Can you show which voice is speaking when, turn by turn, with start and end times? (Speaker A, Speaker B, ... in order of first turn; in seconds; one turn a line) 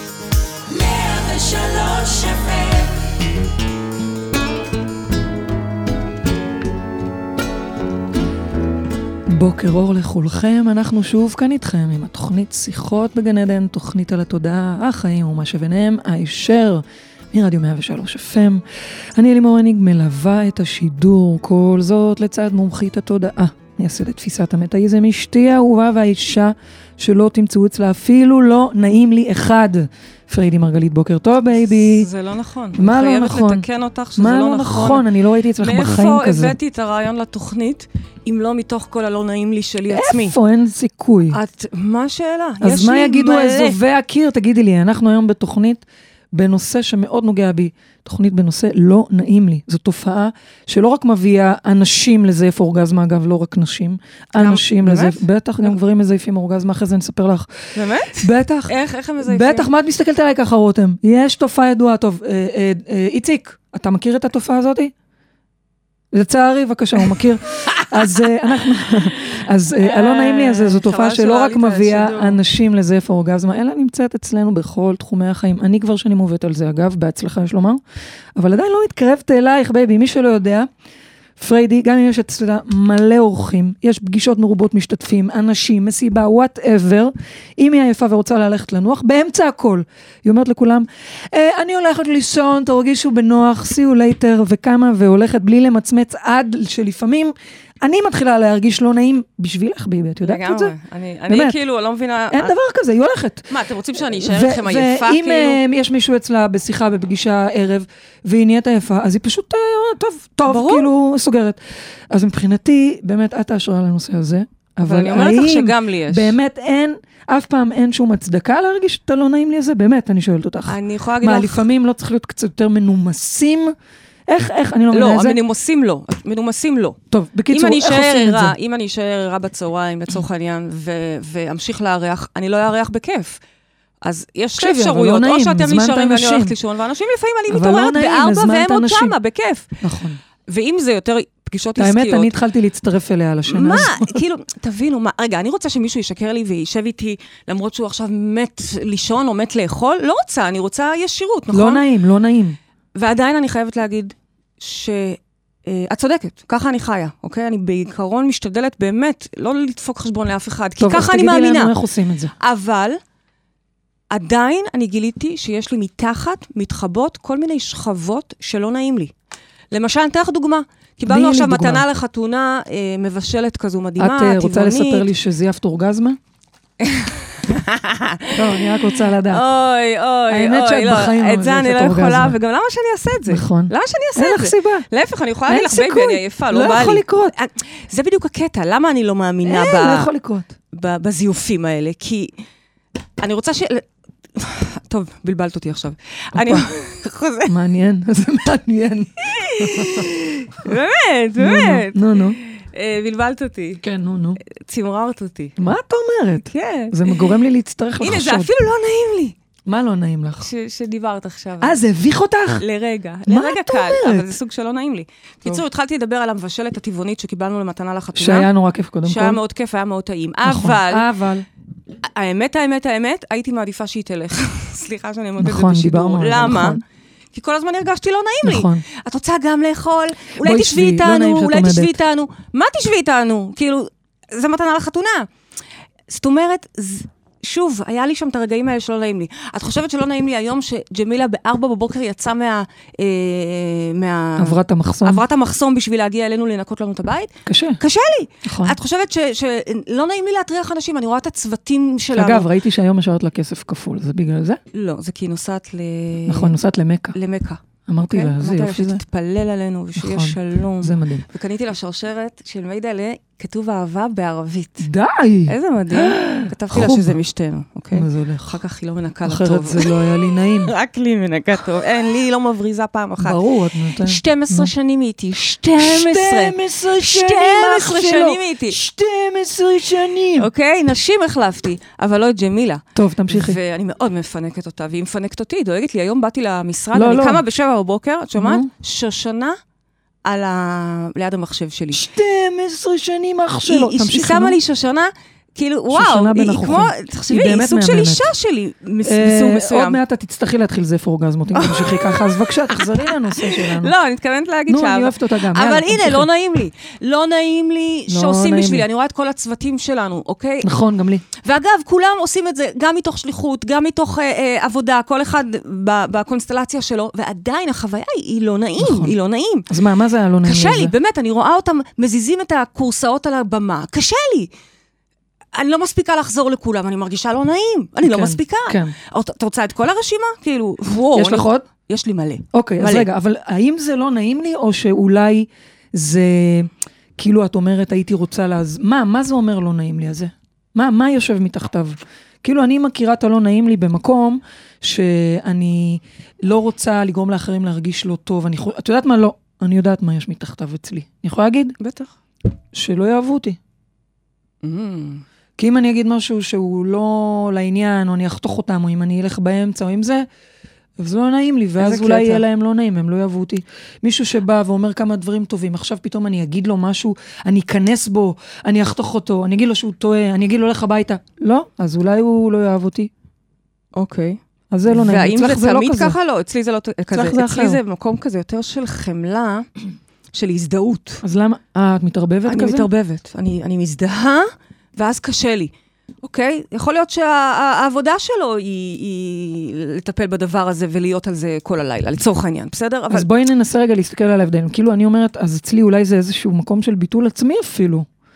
Speaker A: 0.8-2.9
Speaker B: 9.3-18.6
Speaker B: 19.1-32.1
Speaker C: 32.0-35.0
Speaker B: 32.7-36.5
Speaker C: 35.6-40.4
Speaker B: 39.9-41.4
Speaker C: 41.3-43.8
Speaker B: 42.6-64.9
Speaker C: 54.3-55.2
Speaker C: 57.7-59.7
Speaker B: 66.1-77.8
Speaker C: 69.8-72.4
Speaker B: 78.3-80.7
Speaker B: 81.4-100.8
Speaker C: 100.2-102.5
Speaker B: 101.3-101.6
Speaker B: 102.3-111.6
Speaker C: 103.5-105.6
Speaker C: 110.5-110.9
Speaker B: 112.1-123.7
Speaker C: 114.8-116.3
Speaker C: 120.7-121.7
Speaker B: 124.3-125.4
Speaker C: 124.9-127.0
Speaker B: 127.1-128.5
Speaker C: 127.5-133.4
Speaker C: 134.0-139.8
Speaker B: 134.6-136.5
Speaker B: 137.5-139.2
Speaker B: 139.8-140.2
Speaker C: 140.5-142.3
Speaker B: 141.8-144.2
Speaker C: 143.4-151.8
Speaker B: 151.5-152.6
Speaker C: 152.9-161.7
Speaker B: 160.8-162.3
Speaker C: 162.4-163.0
Speaker C: 164.1-169.1
Speaker C: 169.7-175.1
Speaker B: 171.1-171.8
Speaker B: 174.0-176.2
Speaker C: 176.8-190.1
Speaker B: 178.3-179.4
Speaker B: 180.3-182.3
Speaker B: 183.3-184.8
Speaker B: 185.5-187.3
Speaker B: 189.4-190.5
Speaker C: 190.7-192.4
Speaker C: 193.2-197.5
Speaker B: 196.3-196.7
Speaker B: 197.5-200.1
Speaker C: 199.2-203.8
Speaker B: 201.4-202.4
Speaker B: 203.8-204.4
Speaker C: 204.4-205.6
Speaker B: 205.6-208.5
Speaker C: 206.5-207.3
Speaker C: 208.0-209.3
Speaker B: 209.7-210.5
Speaker C: 210.4-211.8
Speaker B: 211.6-212.6
Speaker C: 212.6-218.5
Speaker B: 213.3-214.3
Speaker B: 218.1-219.4
Speaker C: 219.0-221.1
Speaker B: 220.4-221.4
Speaker C: 222.0-226.8
Speaker B: 225.4-226.8
Speaker C: 227.3-235.3
Speaker B: 228.4-228.8
Speaker B: 230.3-232.0
Speaker C: 236.1-252.5
Speaker B: 244.4-245.2
Speaker B: 247.4-247.8
Speaker B: 248.4-248.8
Speaker B: 252.1-254.6
Speaker C: 254.7-256.6
Speaker B: 256.3-257.1
Speaker C: 257.1-264.9
Speaker B: 257.9-259.0
Speaker B: 260.0-261.2
Speaker B: 264.8-267.1
Speaker C: 265.4-273.4
Speaker B: 267.9-268.6
Speaker B: 269.2-270.7
Speaker B: 273.2-274.7
Speaker C: 274.0-278.8
Speaker B: 275.5-280.5
Speaker C: 280.4-289.6
Speaker B: 282.9-283.6
Speaker B: 286.9-287.4
Speaker B: 288.4-288.7
Speaker C: 290.2-292.0
Speaker B: 291.9-294.6
Speaker C: 293.6-300.0
Speaker B: 295.9-298.3
Speaker B: 299.0-303.9
Speaker C: 301.5-310.7
Speaker B: 304.7-306.3
Speaker B: 308.1-308.9
Speaker B: 310.6-311.2
Speaker C: 311.4-319.7
Speaker B: 318.8-319.1
Speaker B: 319.7-320.9
Speaker C: 320.4-324.5
Speaker C: 325.5-333.1
Speaker B: 328.0-328.9
Speaker B: 331.1-331.6
Speaker B: 332.5-351.8
Speaker C: 351.8-352.1
Speaker B: 352.7-353.6
Speaker C: 354.6-355.2
Speaker B: 355.6-360.2
Speaker B: 361.0-373.1
Speaker C: 361.8-362.4
Speaker C: 373.9-379.7
Speaker B: 374.7-376.1
Speaker B: 377.1-377.8
Speaker C: 380.3-381.2
Speaker B: 381.2-382.9
Speaker C: 382.4-385.7
Speaker C: 386.2-393.3
Speaker B: 393.1-398.1